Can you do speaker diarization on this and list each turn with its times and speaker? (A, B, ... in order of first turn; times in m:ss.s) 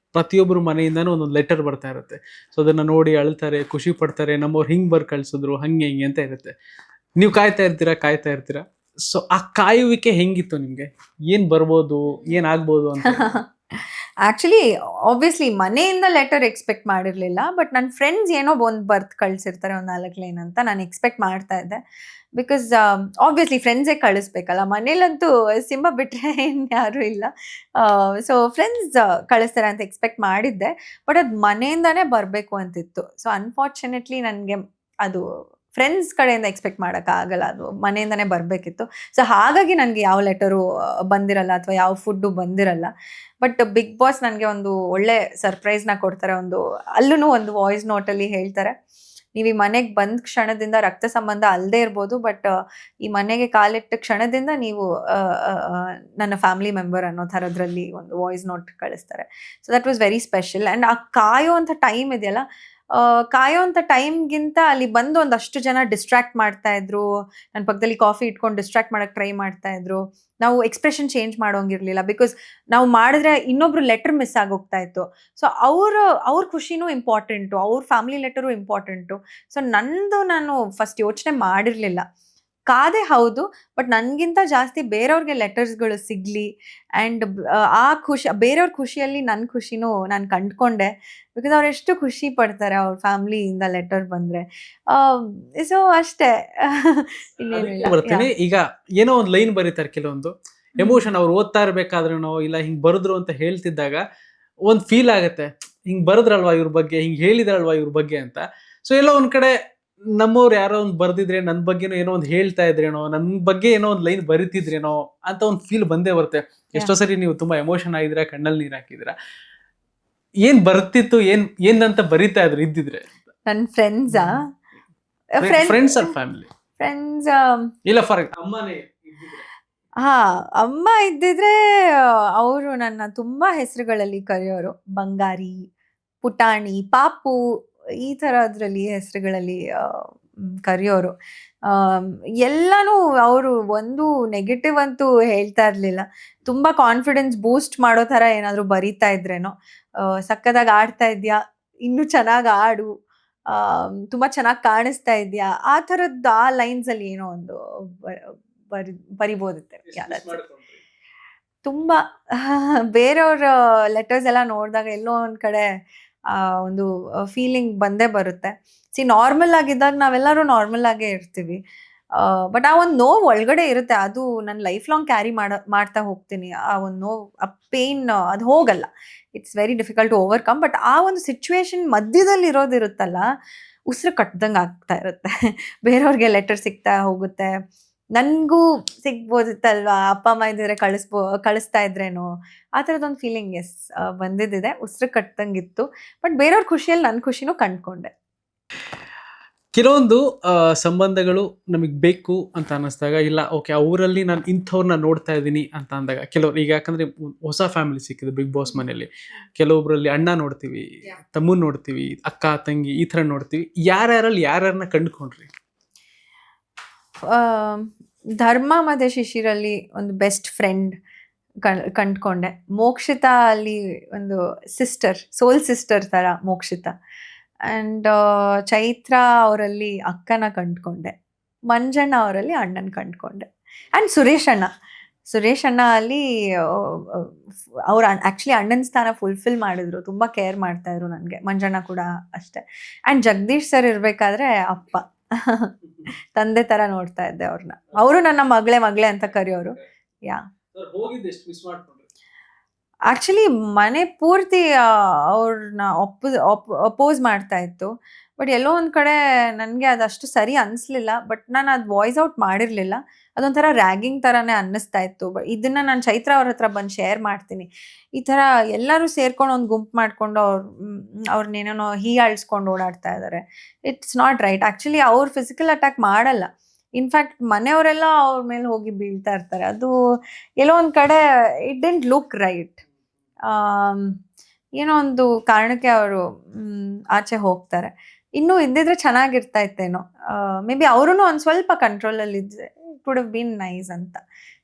0:00.1-0:06.5 A
0:07.2-0:13.4 A
0:13.0-0:21.8 B
0:22.4-0:48.7 B
0:49.4-0:52.5 B
0:53.0-1:22.0 B
1:22.7-1:38.3 B
1:37.5-1:44.0 A
1:40.8-1:41.1 B
1:44.7-1:49.6 A
1:50.2-1:59.2 A
2:00.4-2:03.2 A
2:03.5-2:04.5 B
2:05.4-2:06.1 B
2:05.4-2:06.5 A
2:06.8-2:07.7 B
2:07.9-2:09.4 A
2:10.0-2:15.6 B
2:16.2-2:21.1 B
2:21.7-2:32.9 B
2:33.5-2:40.4 B
2:39.8-2:40.8 A
2:41.6-2:45.8 B
2:46.3-2:51.6 B
2:52.2-3:03.2 B
3:03.9-3:07.6 B
3:08.2-3:18.1 B
3:19.7-3:35.5 A
3:37.2-3:41.0 B
3:41.6-3:46.9 B
3:47.6-3:51.1 B
3:51.7-3:54.7 B
3:55.3-4:05.7 B
4:06.4-4:10.4 B
4:10.7-4:12.1 A
4:13.1-4:39.9 B
4:40.6-4:42.8 B
4:43.4-4:44.2 B
4:44.8-4:54.2 B